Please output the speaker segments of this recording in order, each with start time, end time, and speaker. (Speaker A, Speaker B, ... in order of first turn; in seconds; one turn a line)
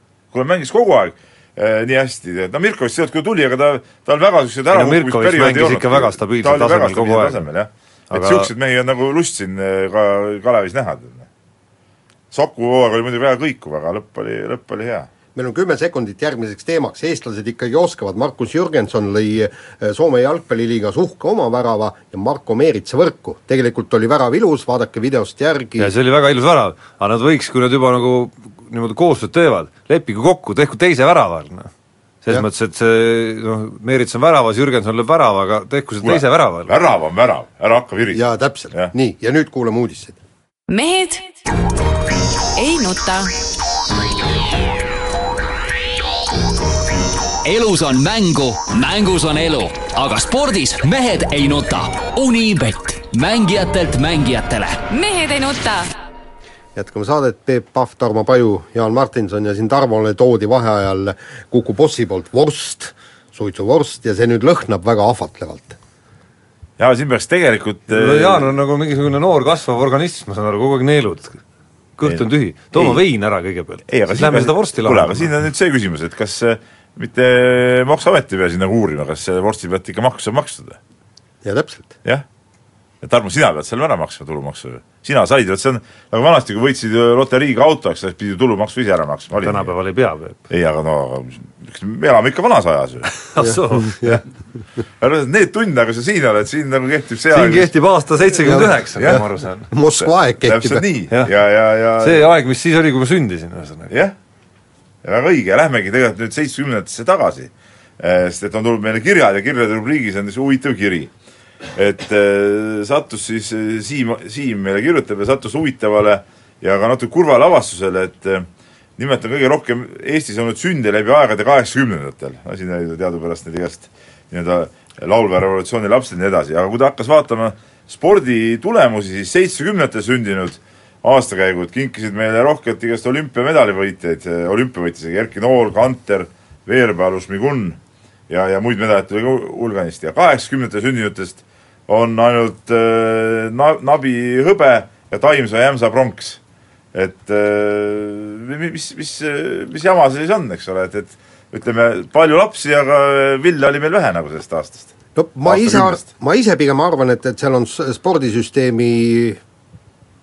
Speaker A: 0.3-11.3
Speaker B: 4.7-7.4
Speaker B: 8.1-8.5
Speaker A: 12.3-15.1
Speaker C: 15.3-25.9
Speaker B: 25.8-31.7
Speaker B: 32.2-36.7
Speaker A: 36.0-38.9
Speaker C: 38.1-40.2
Speaker D: 40.7-41.4
Speaker D: 42.6-43.3
Speaker E: 47.5-54.8
Speaker D: 54.9-55.9
Speaker C: 56.8-65.8
Speaker A: 66.8-68.5
Speaker B: 67.9-71.4
Speaker B: 72.0-75.3
Speaker A: 72.0-73.0
Speaker A: 73.9-80.8
Speaker C: 81.4-81.9
Speaker A: 83.0-89.7
Speaker B: 89.4-90.4
Speaker A: 90.5-93.1
Speaker B: 93.2-94.1
Speaker C: 93.4-94.2
Speaker A: 95.0-97.7
Speaker B: 97.3-99.7
Speaker C: 98.4-100.8
Speaker A: 100.0-102.3
Speaker B: 102.0-103.9
Speaker A: 105.0-111.1
Speaker A: 111.7-137.8
Speaker A: 138.3-146.4
Speaker A: 146.9-154.9
Speaker C: 155.2-159.4
Speaker A: 155.4-156.0